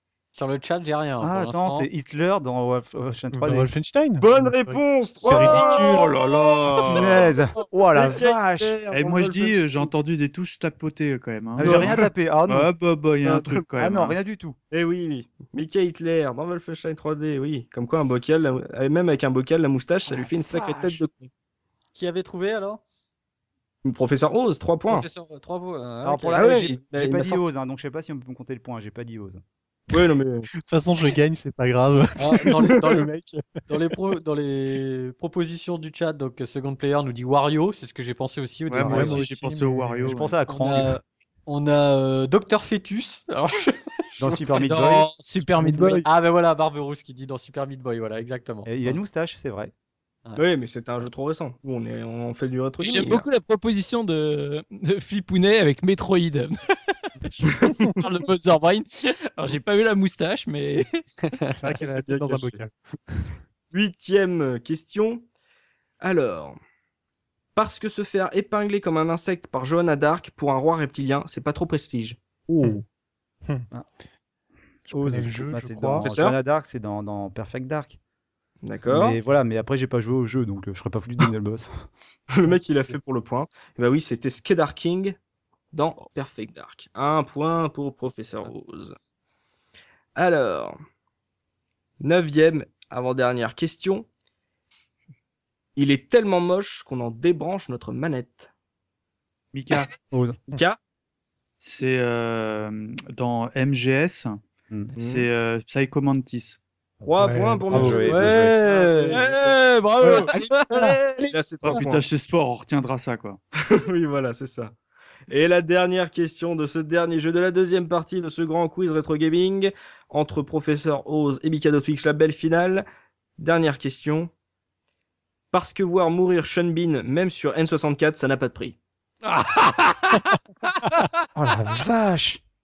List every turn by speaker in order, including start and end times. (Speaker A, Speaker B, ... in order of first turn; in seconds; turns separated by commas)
Speaker A: 0.3-1.9, Speaker B: 1.2-3.7, Speaker C: 3.3-6.1, Speaker D: 4.2-7.3, Speaker E: 5.4-7.3, Speaker B: 6.9-8.8, Speaker D: 7.9-9.9, Speaker E: 8.9-14.1, Speaker B: 11.6-12.7, Speaker D: 13.2-13.7, Speaker B: 13.8-14.6, Speaker D: 14.7-21.3, Speaker B: 20.1-21.0, Speaker A: 21.9-22.8, Speaker D: 23.8-25.1, Speaker A: 24.9-26.4, Speaker B: 26.0-29.4, Speaker D: 26.3-27.5, Speaker D: 29.9-30.5, Speaker C: 30.6-33.4, Speaker A: 32.2-33.1, Speaker A: 33.7-39.2, Speaker E: 38.7-40.3, Speaker C: 38.8-40.1, Speaker B: 40.0-40.9, Speaker A: 40.5-44.6, Speaker B: 44.2-45.1, Speaker F: 44.5-46.1, Speaker A: 45.6-49.0, Speaker B: 48.6-49.7, Speaker D: 50.4-53.2, Speaker F: 52.8-56.5, Speaker F: 57.4-61.0, Speaker C: 61.6-63.3, Speaker D: 61.9-62.6, Speaker D: 63.7-65.2, Speaker D: 66.0-66.6, Speaker D: 67.5-72.8, Speaker B: 74.9-78.0, Speaker C: 74.9-76.1, Speaker D: 76.0-76.4, Speaker D: 78.6-79.2, Speaker B: 78.9-81.7, Speaker D: 82.3-85.2, Speaker D: 85.7-89.0, Speaker D: 90.2-90.7, Speaker D: 92.0-94.0, Speaker D: 95.8-98.5, Speaker E: 99.5-99.9, Speaker B: 100.1-100.4, Speaker D: 100.5-100.8, Speaker E: 101.6-104.4, Speaker B: 104.7-104.9, Speaker D: 105.0-105.3, Speaker E: 105.0-106.6, Speaker B: 107.0-108.6, Speaker D: 107.1-109.4, Speaker C: 107.2-108.1, Speaker A: 108.0-109.2, Speaker F: 109.1-110.6, Speaker C: 110.0-111.8, Speaker D: 110.0-112.0, Speaker E: 111.7-113.4, Speaker D: 113.7-114.7, Speaker D: 115.3-122.8, Speaker D: 123.4-124.3, Speaker D: 125.5-128.8, Speaker F: 129.2-131.2, Speaker B: 131.3-132.4